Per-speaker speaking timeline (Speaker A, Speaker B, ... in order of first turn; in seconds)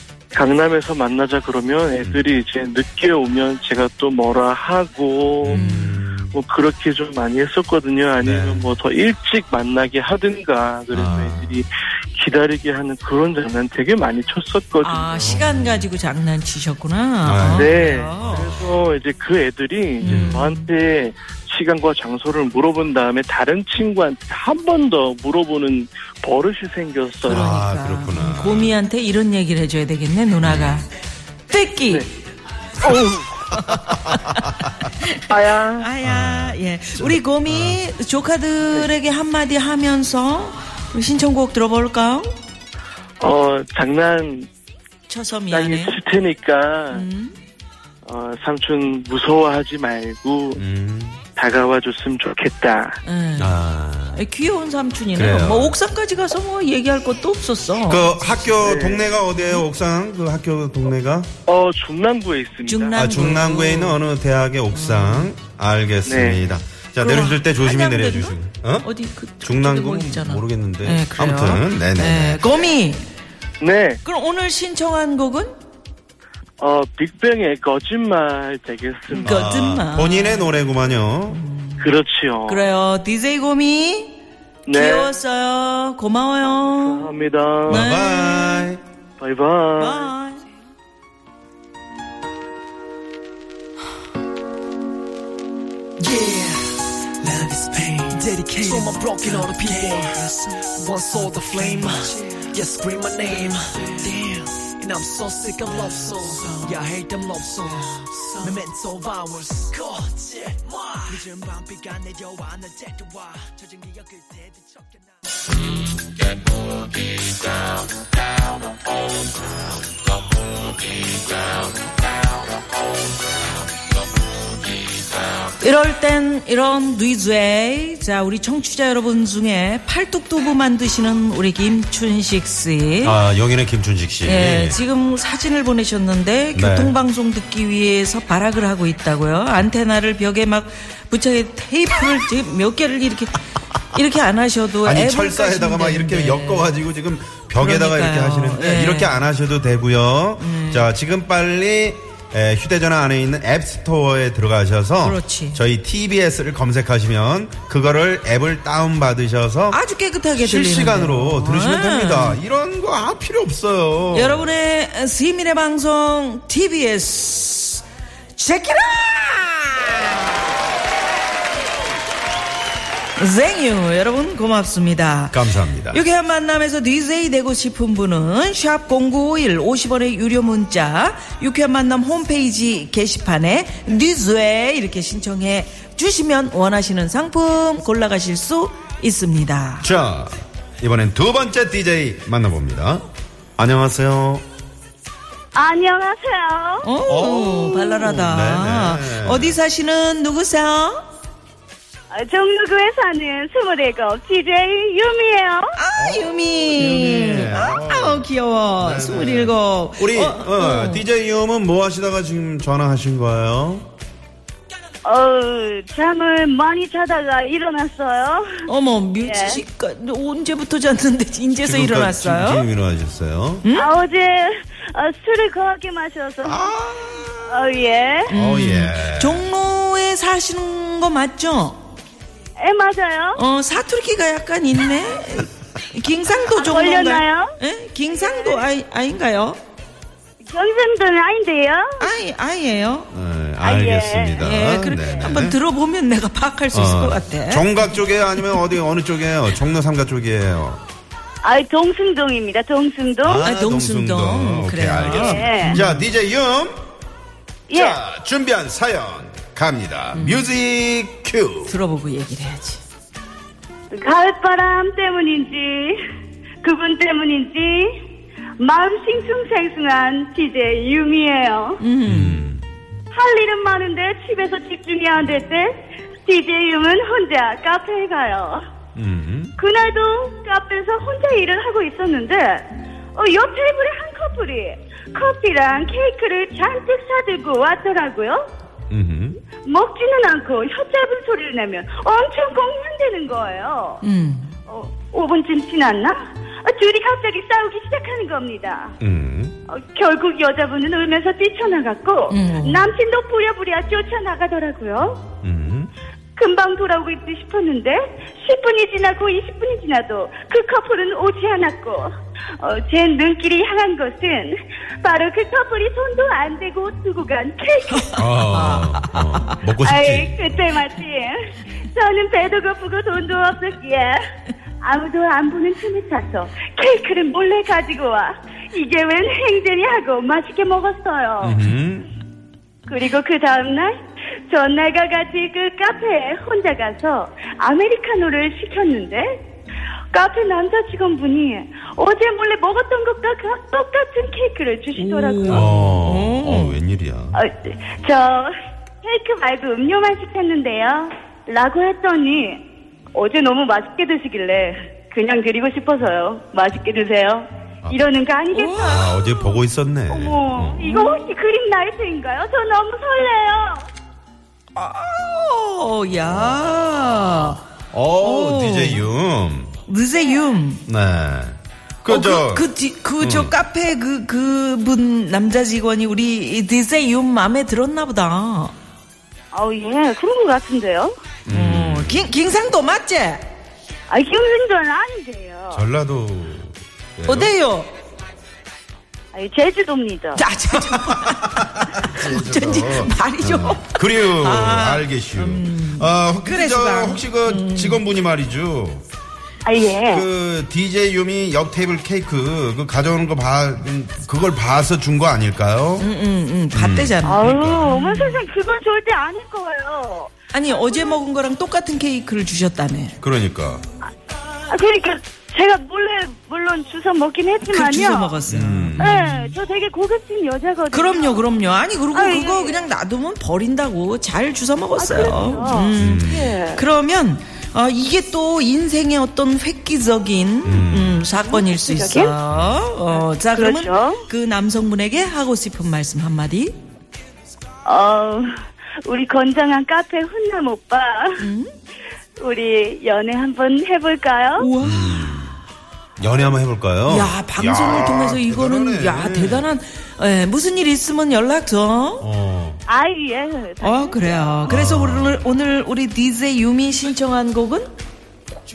Speaker A: 0.3-5.7, 6.3-15.4, 17.5-27.6, 32.8-33.4, 35.3-35.9, 43.2-44.5, 45.5-47.0, 48.0-50.6, 51.4-53.0, 58.6-59.1, 61.5-63.0, 66.0-66.4, 73.6-74.0, 76.6-79.5, 81.8-82.6, 84.7-85.1, 86.5-87.8, 89.2-90.1
Speaker B: 5.4-6.3, 8.2-8.7, 10.9-11.5, 15.2-15.9, 17.2-18.7, 20.0-20.4, 27.3-28.8, 30.4-30.9, 33.9-34.2, 36.0-37.8, 50.5-51.2, 53.4-54.2, 55.1-55.8, 57.8-61.3, 62.9-68.9, 69.4-72.7, 79.2-81.4, 87.7-88.8, 133.0-134.8, 136.5-136.9, 144.8-159.8, 160.3-164.5, 175.3-176.0, 189.8-193.0, 193.6-194.4, 197.1-199.6, 206.0-213.9, 221.6-223.7, 226.4-227.7, 228.3-229.4, 243.1-245.6, 246.7-250.8, 253.2-256.8, 257.7-261.7, 272.1-272.6, 278.9-279.5, 288.9-289.4, 299.0-299.6, 305.4-305.9, 318.1-320.7, 331.4-332.1, 345.5-347.4, 358.8-360.8, 366.1-369.7, 370.9-372.7, 373.2-373.6, 381.4-382.3, 385.7-387.5, 391.1-399.0, 400.1-406.1, 406.7-407.8, 413.2-413.8, 418.5-419.2, 426.0-426.5, 430.6-431.3, 432.5-432.9, 444.8-445.6, 446.2-449.7, 452.2-452.8, 454.6-455.4
Speaker C: 5.5-6.0, 14.8-18.5, 20.0-20.7, 27.3-30.9, 31.5-32.1, 33.5-35.2, 35.7-42.3, 45.1-46.0, 46.9-47.3, 53.0-53.6, 54.1-58.1, 59.3-59.6, 62.6-64.0, 64.7-65.3, 67.0-73.0, 74.0-75.5, 79.1-80.6, 81.3-81.9, 82.5-84.1, 84.7-87.1, 87.7-88.7, 89.8-90.4, 125.6-133.2, 134.2-146.7, 147.6-149.2, 150.4-150.9, 155.0-155.6, 159.7-162.4, 164.1-167.8, 168.3-170.2, 173.2-189.9, 196.8-201.1, 205.8-211.1, 218.7-222.7, 223.6-223.9, 228.3-231.8, 233.3-239.6, 242.0-243.1, 244.4-247.8, 253.4-256.0, 260.1-260.4, 261.6-262.8, 271.8-272.4, 294.0-294.5, 302.3-302.9, 317.9-319.6, 344.9-346.8, 358.5-359.6, 360.8-361.3, 364.7-367.6, 368.2-369.1, 369.8-370.8, 372.1-378.7, 381.5-383.4, 387.2-387.9, 390.3-398.0, 406.0-408.4, 410.5-413.2, 417.6-419.5, 420.9-436.8, 441.4-441.7, 444.6-445.4, 447.1-452.2, 453.8-457.9
Speaker D: 96.0-115.1
Speaker E: 195.5-196.9, 202.1-205.7, 215.0-218.5, 219.2-219.6, 223.7-226.6, 227.5-228.3, 232.6-233.4, 236.5-237.5, 238.1-238.6, 240.4-242.1, 243.6-244.4, 251.4-253.4, 255.1-255.8, 257.7-258.0, 263.9-266.0, 266.6-267.9, 268.6-271.8, 273.1-278.6, 279.6-288.4, 289.6-294.0, 294.7-298.9, 299.7-305.2, 306.4-312.1, 312.6-318.2, 319.8-324.2, 324.8-331.6, 332.9-333.9, 334.5-339.3, 340.1-345.7, 347.3-348.5, 349.0-352.6, 353.1-359.1, 360.1-363.9, 379.5-381.1, 384.1-385.8, 389.3-390.4, 399.6-400.2, 407.2-411.2, 414.7-418.3, 419.0-421.4, 422.1-422.8, 424.9-426.8, 431.4-432.3, 433.5-434.2, 437.8-438.5, 439.0-441.5, 442.4-444.7, 452.9-454.5